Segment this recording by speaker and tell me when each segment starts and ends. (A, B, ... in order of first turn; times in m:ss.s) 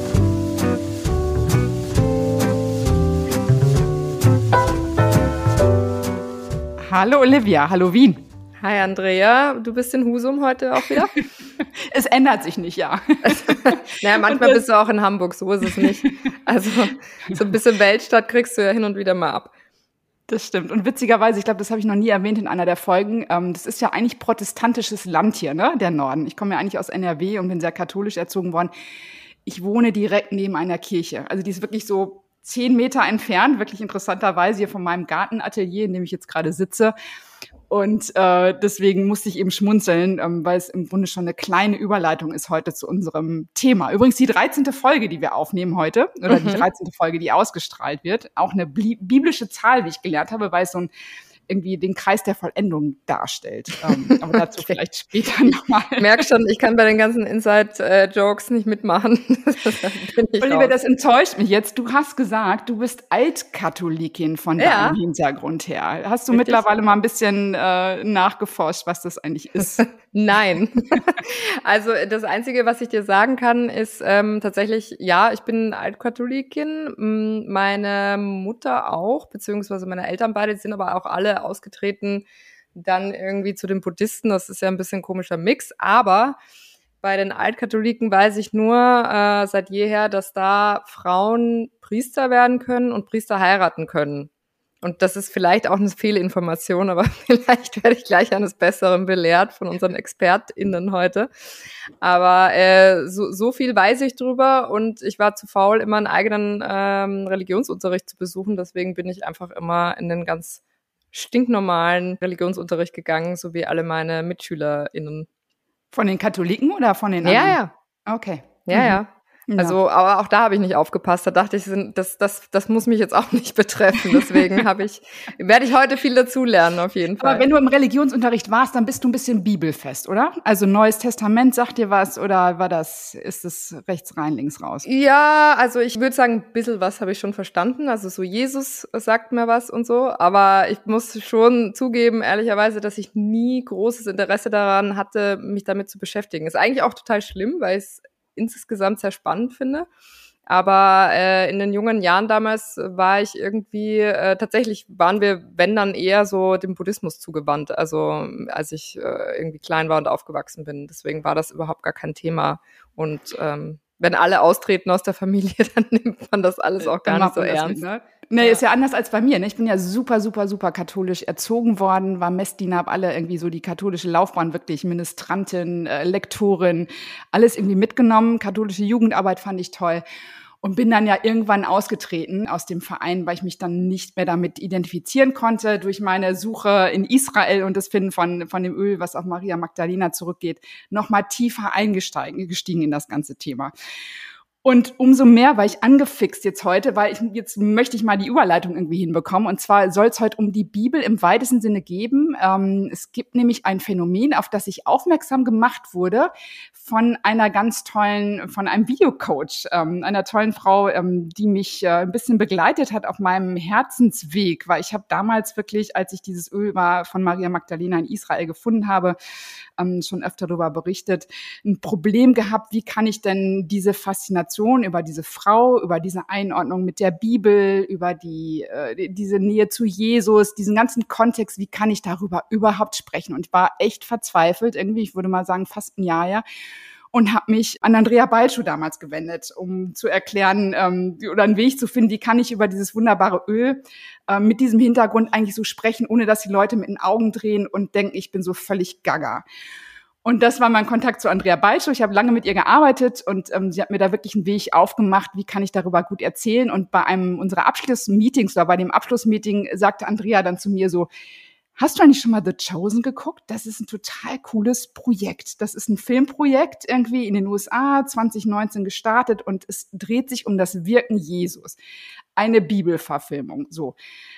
0:06.8-0:08.2 A
0:08.6-0:11.1 B
0:11.9-0:14.6 A
0:13.3-0:19.5 B
0:20.3-0:28.7 A
0:29.4-0:36.9 A
0:37.7-0:50.9 A
0:46.3-0:46.6 B
0:51.5-0:56.2 A
0:56.0-1:00.7 B
1:00.4-1:09.8 A
1:04.6-1:05.0 B
1:06.3-1:06.6 B
1:09.8-1:26.4 B
1:27.0-1:34.3 B
1:34.8-1:41.3 B
1:42.0-1:50.6 B
1:51.1-1:55.3 B
1:55.9-1:59.0 A
1:57.2-1:57.7 B
1:58.6-2:07.4 B
1:59.5-1:59.8 A
2:04.2-2:04.4 A
2:07.2-2:14.8 A
2:14.8-2:29.9 B
2:30.5-2:47.8 B
2:46.8-3:00.0 A
2:48.4-2:48.6 B
3:00.6-3:13.7 A
3:14.6-3:39.2 A
3:39.8-3:56.4 A
3:57.1-4:09.4 A
4:10.2-4:21.1 A
4:21.8-4:31.8 A
4:32.4-4:33.9 A